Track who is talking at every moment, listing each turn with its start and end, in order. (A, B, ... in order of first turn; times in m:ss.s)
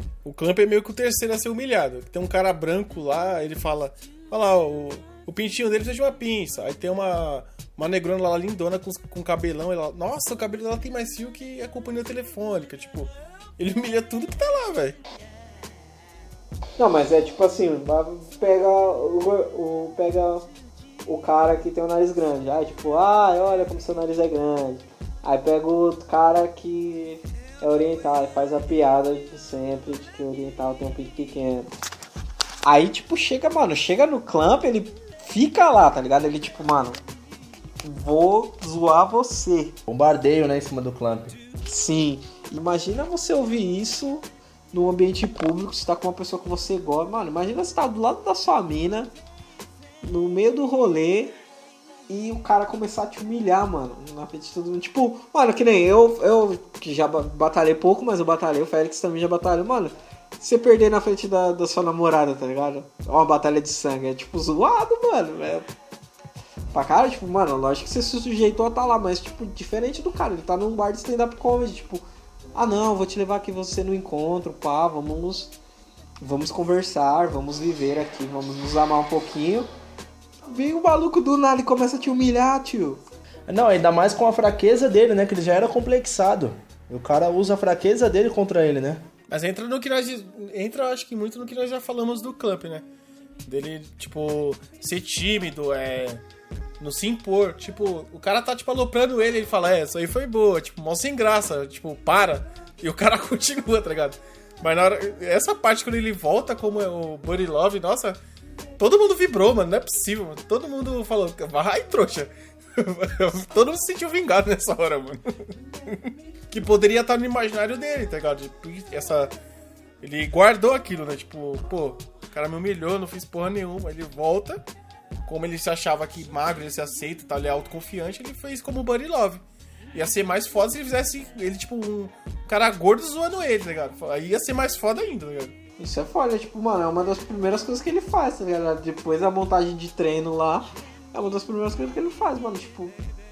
0:00.2-0:15.0 A
0:16.8-0:20.4 B
0:21.1-0:31.7 B
0:32.6-0:37.0 B
0:37.8-0:39.8 B
0:39.9-0:41.4 C
0:41.7-0:49.1 B
0:50.0-0:51.4 B
0:52.1-1:05.7 B
1:06.7-1:15.5 B
1:16.2-1:19.7 B
1:20.4-1:23.0 B
1:23.5-1:29.0 C
1:29.3-1:32.8 A
1:33.4-1:36.2 A
1:36.8-1:48.2 A
1:48.8-1:59.3 A
2:00.0-2:04.6 A
2:05.3-2:15.6 A
2:15.8-2:23.0 B